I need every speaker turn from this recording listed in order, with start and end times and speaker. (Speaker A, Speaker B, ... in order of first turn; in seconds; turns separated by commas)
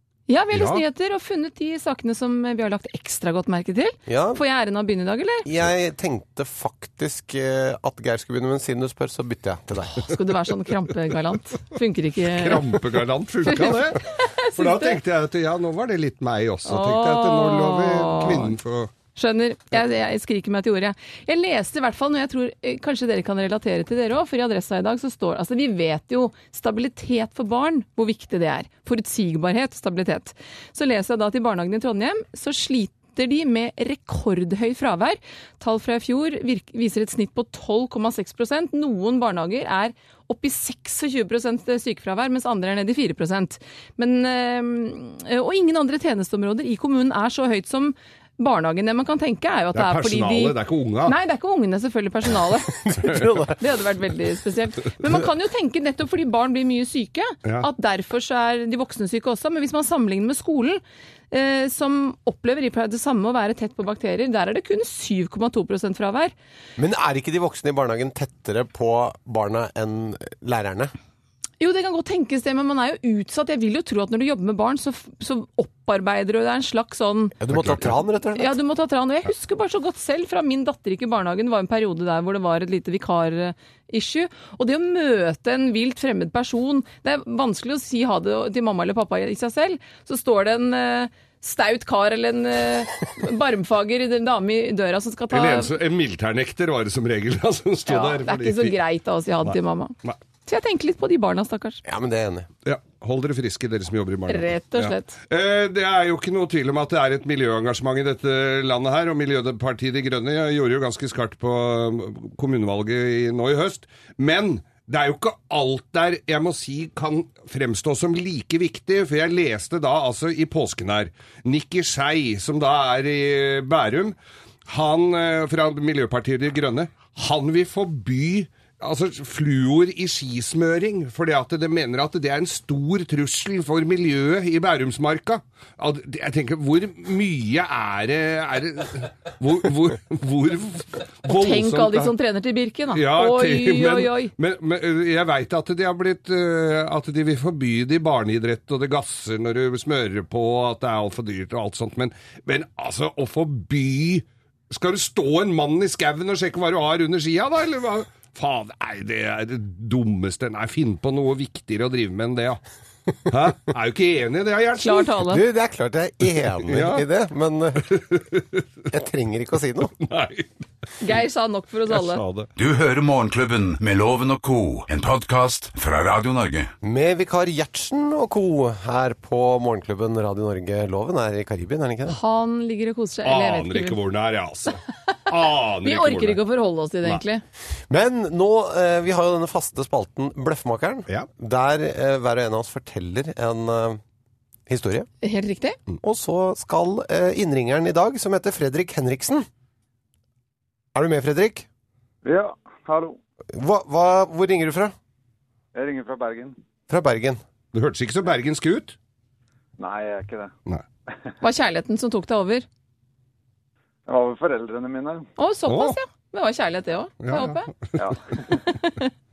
Speaker A: 0.3-5.5, Speaker B: 0.5-0.8, Speaker C: 4.1-4.4, Speaker C: 5.4-10.1, Speaker A: 10.0-12.7, Speaker B: 12.2-18.9, Speaker A: 13.5-15.0, Speaker A: 16.7-18.6, Speaker A: 19.1-52.8, Speaker B: 49.7-51.2, Speaker C: 52.8-53.6, Speaker A: 53.5-66.3, Speaker C: 66.8-70.9, Speaker A: 71.6-77.3, Speaker C: 77.4-78.6, Speaker B: 77.5-77.9, Speaker A: 78.3-95.7, Speaker B: 95.3-98.8, Speaker A: 97.9-99.9, Speaker B: 99.4-100.2, Speaker A: 100.5-101.8, Speaker C: 101.8-102.5, Speaker B: 102.7-142.1, Speaker A: 104.3-105.2, Speaker A: 141.2-144.3, Speaker B: 142.9-162.6, Speaker B: 163.3-165.2, Speaker A: 164.8-165.4, Speaker C: 165.3-168.0, Speaker B: 166.7-167.1, Speaker B: 167.8-168.6, Speaker C: 168.9-169.9, Speaker B: 170.0-170.5, Speaker A: 171.0-172.2, Speaker B: 171.9-172.5, Speaker D: 172.6-176.7, Speaker C: 176.8-182.2, Speaker A: 182.1-184.0, Speaker B: 183.2-186.4, Speaker A: 185.8-187.4, Speaker C: 187.9-194.0, Speaker C: 194.7-195.1, Speaker A: 195.2-195.8, Speaker C: 196.0-199.5, Speaker C: 200.9-201.7, Speaker E: 202.2-203.2, Speaker C: 203.5-204.9, Speaker E: 205.7-206.6, Speaker C: 206.9-207.4, Speaker B: 207.7-208.9, Speaker E: 209.8-210.5, Speaker A: 211.4-212.7, Speaker E: 214.1-215.3, Speaker A: 215.4-217.7, Speaker B: 215.7-215.9, Speaker B: 217.2-218.1, Speaker E: 218.0-218.3, Speaker A: 218.7-219.1